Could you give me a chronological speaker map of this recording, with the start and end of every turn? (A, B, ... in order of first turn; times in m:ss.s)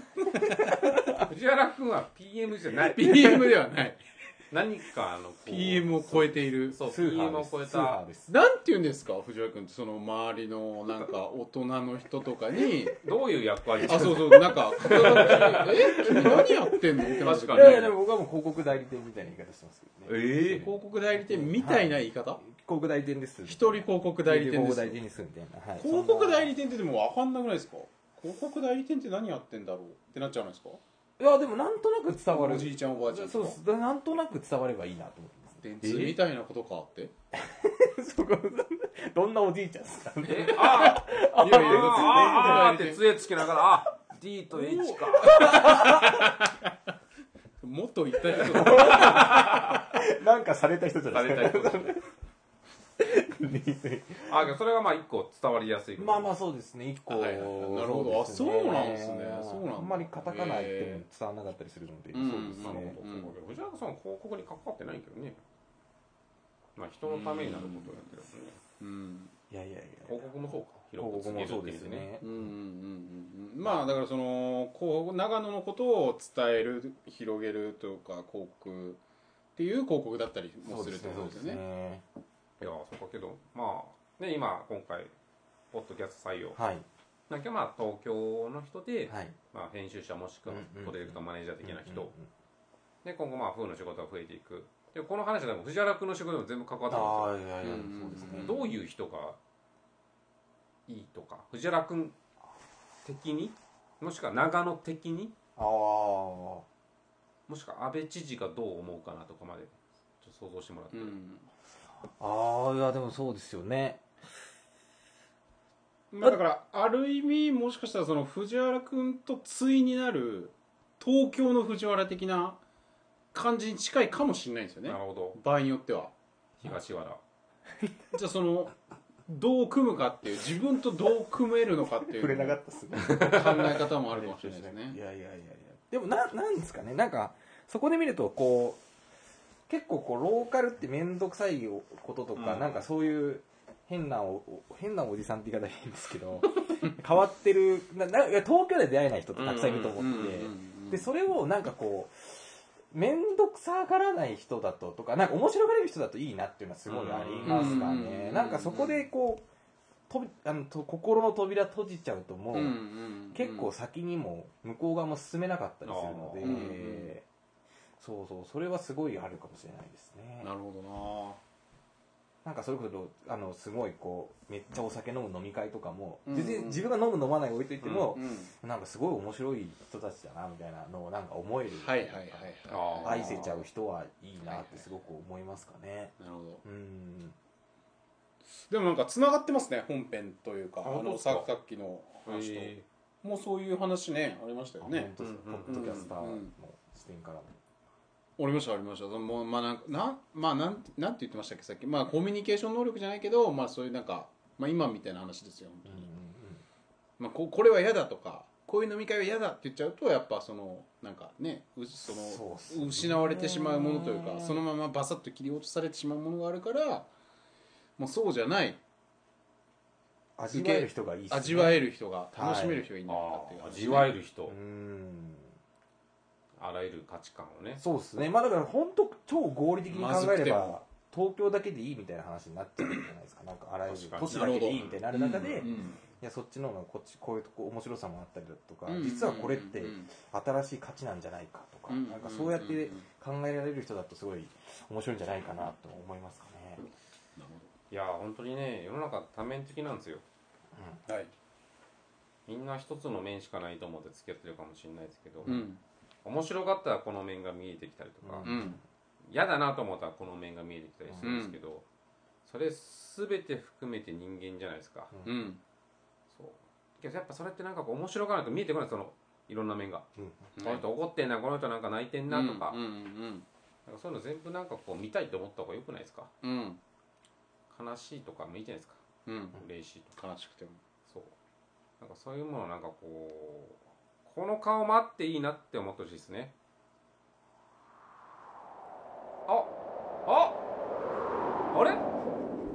0:00.7-0:01.2 A
0:01.0-0:03.5 B
0:02.8-0:04.0 C
0:04.5-0:06.0 B
0:05.4-0:06.8 C
0:06.1-0:08.3 A
0:06.7-0:08.0 B
0:08.3-0:13.0 C
0:13.0-0:16.5 B
0:13.8-0:18.0 C
0:14.9-0:26.5 A
0:17.2-0:17.9 B
0:20.1-0:20.7 B
0:20.2-0:22.4 C
0:23.5-0:25.0 C
0:25.8-0:30.8 C
0:31.2-0:36.2 A
0:32.3-0:33.6 C
0:35.6-0:37.1 C
0:37.3-0:42.8 A
0:40.2-0:45.8 B
0:40.5-0:43.0 C
0:44.6-0:46.6 C
0:44.7-0:46.3 A
0:47.6-0:49.2 C
0:48.3-0:49.9 B
0:48.4-0:52.1 A
0:51.1-0:52.0 B
0:53.0-0:54.5 A
0:54.2-0:56.3 B
0:56.0-1:03.0 A
0:57.1-1:01.0 C
1:02.1-1:03.3 C
1:02.6-1:05.4 B
1:06.8-1:08.6 B
1:07.1-1:08.0 C
1:08.8-1:09.3 C
1:09.5-1:12.5 A
1:10.1-1:12.1 B
1:12.2-1:19.0 C
1:19.6-1:21.6 C
1:20.6-1:22.0 A
1:22.6-1:25.1 B
1:25.7-1:26.6 B
1:26.6-1:26.8 A
1:27.3-1:32.1 B
1:29.1-1:29.4 A
1:30.5-1:32.3 A
1:33.0-1:37.4 B
1:36.9-1:38.6 A
1:37.6-1:38.6 C
1:38.3-1:39.4 B
1:40.9-1:42.2 B
1:43.0-1:45.4 B
1:45.6-1:46.6 A
1:47.5-1:51.2 B
1:50.9-1:51.5 C
1:52.2-1:54.0 A
1:56.1-2:02.6 C
2:03.3-2:06.1 C
2:04.9-2:05.4 B
2:06.6-2:07.2 B
2:08.1-2:08.7 C
2:09.3-2:15.0 C
2:12.1-2:18.8 A
2:19.7-2:39.5 A
2:29.4-2:29.9 B
2:29.5-2:31.1 C
2:36.9-2:37.9 B
2:37.4-2:39.1 C
2:40.1-2:42.8 A
2:42.5-2:43.7 C
2:43.3-2:47.2 A
2:45.8-2:46.7 B
2:46.4-2:47.1 C
2:48.0-2:50.5 A
2:50.4-2:51.4 C
2:52.4-3:07.4 A
2:56.3-2:56.9 C
2:57.8-2:58.1 B
2:58.1-2:58.5 C
3:01.8-3:03.6 C
3:02.7-3:03.6 B
3:04.4-3:04.9 C
3:06.2-3:06.6 C
3:08.6-3:15.1 C
3:10.8-3:11.5 B
3:12.3-3:12.8 B
3:14.8-3:17.6 A
3:15.2-3:16.1 B
3:15.7-3:16.5 C
3:18.4-3:26.1 C
3:25.9-3:26.6 A
3:27.2-3:37.1 C
3:32.0-3:34.6 A
3:38.0-3:38.8 C
3:40.4-3:42.9 A
3:40.5-3:44.1 C
3:43.1-3:44.6 B
3:44.5-3:45.5 A
3:46.6-3:47.8 B
3:47.8-4:06.8 A
3:49.9-3:50.8 C
3:53.9-3:55.0 B
3:54.2-3:56.0 C
3:58.9-4:00.1 C
4:01.9-4:03.1 C
4:07.4-4:07.7 C
4:07.9-4:10.2 B
4:10.8-4:11.0 A
4:11.1-4:11.3 C
4:12.5-4:15.6 B
4:15.4-4:15.8 C
4:16.2-4:18.7 B
4:18.2-4:18.8 A
4:18.4-4:18.8 C
4:19.2-4:21.8 B
4:21.2-4:21.6 C
4:22.4-4:25.1 B
4:25.2-4:25.6 C
4:26.3-4:30.1 B
4:30.2-4:30.5 A
4:30.6-4:30.9 C
4:30.6-4:32.8 B
4:32.3-4:33.5 C
4:33.9-4:36.3 B
4:36.4-4:36.8 C
4:37.7-4:39.0 B
4:39.3-4:39.6 C
4:39.6-4:40.1 B
4:40.2-4:40.8 C
4:41.1-4:41.3 B
4:42.0-4:46.5 B
4:49.5-4:49.7 B
4:50.3-4:50.6 B
4:51.7-4:52.0 B